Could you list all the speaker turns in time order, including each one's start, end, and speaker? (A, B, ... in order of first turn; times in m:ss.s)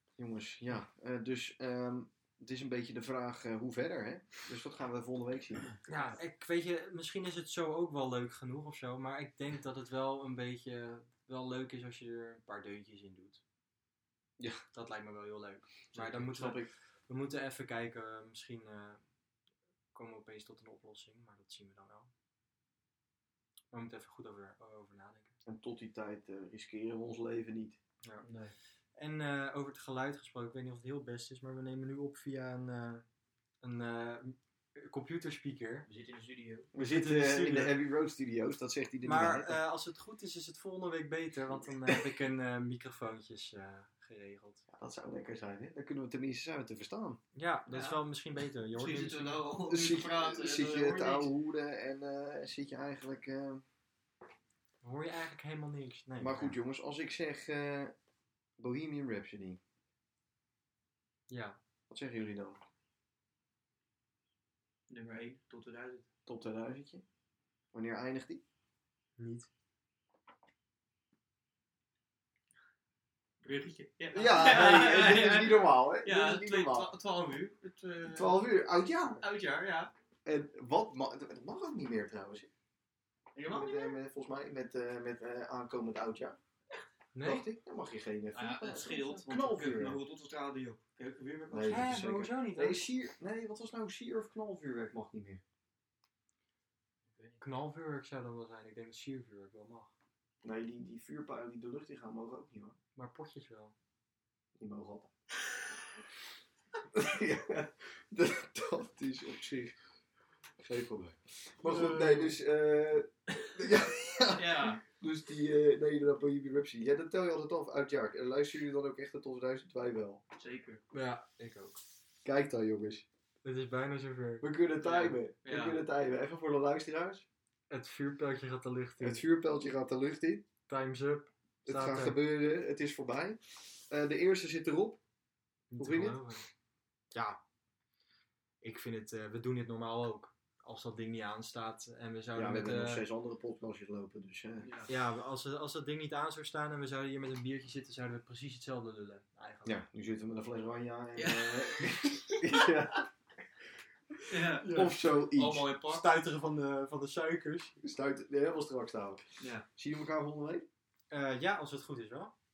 0:00.2-0:05.8 A
0:05.9-0:13.4 B
0:14.4-0:14.6 A
0:14.7-0:19.0 B
0:15.9-0:16.7 A
0:19.9-0:22.1 B
0:23.7-0:25.3 B
0:25.4-0:27.8 A
0:28.2-0:28.5 C
0:29.0-0:33.0 B
0:33.6-0:35.9 B
0:35.9-0:36.7 C
0:36.7-0:39.6 A
0:36.8-0:37.7 B
0:39.0-0:44.6 B
0:44.7-0:47.2 A
0:47.3-0:49.4 B
0:47.7-0:48.0 C
0:48.7-0:51.3 C
0:49.6-0:53.6 A
0:54.8-0:56.6 B
0:56.2-0:57.9 A
0:58.6-0:59.6 A
1:01.3-1:01.6 B
1:01.9-1:02.6 A
1:04.9-1:06.1 C
1:06.2-1:07.0 A
1:07.7-1:08.4 A
1:09.2-1:09.5 B
1:13.4-1:18.5 C
1:14.1-1:16.9 A
1:18.0-1:19.2 A
1:19.2-1:19.9 C
1:20.2-1:22.5 A
1:23.3-1:24.0 C
1:23.5-1:26.4 A
1:27.1-1:27.5 B
1:27.2-1:30.0 A
1:28.3-1:32.0 C
1:31.5-1:35.4 A
1:31.6-1:32.9 B
1:37.1-1:37.4 C
1:37.4-1:39.9 B
1:40.4-1:42.8 A
1:43.0-1:43.7 B
1:44.6-1:45.1 A
1:46.9-1:49.7 A
1:50.6-2:00.2 A
1:51.6-1:52.3 B
1:54.3-1:54.8 C
2:00.4-2:00.8 C
2:00.9-2:01.8 B
2:02.2-2:03.0 A
2:03.4-2:04.5 B
2:04.4-2:07.2 A
2:04.8-2:05.8 C
2:07.7-2:09.2 B
2:09.0-2:10.4 A
2:10.7-2:12.2 B
2:11.6-2:15.0 A
2:15.7-2:16.5 B
2:15.8-2:16.2 A
2:17.1-2:17.4 B
2:18.6-2:23.0 B
2:22.3-2:24.7 A
2:24.6-2:24.9 C
2:24.9-2:29.8 B
2:29.6-2:33.1 A
2:31.2-2:32.8 C
2:34.3-2:36.0 C
2:34.6-2:35.0 B
2:34.6-2:35.7 A
2:35.9-2:37.7 B
2:37.8-2:39.2 A
2:39.4-2:39.7 C
2:39.8-2:40.6 A
2:41.1-2:42.3 B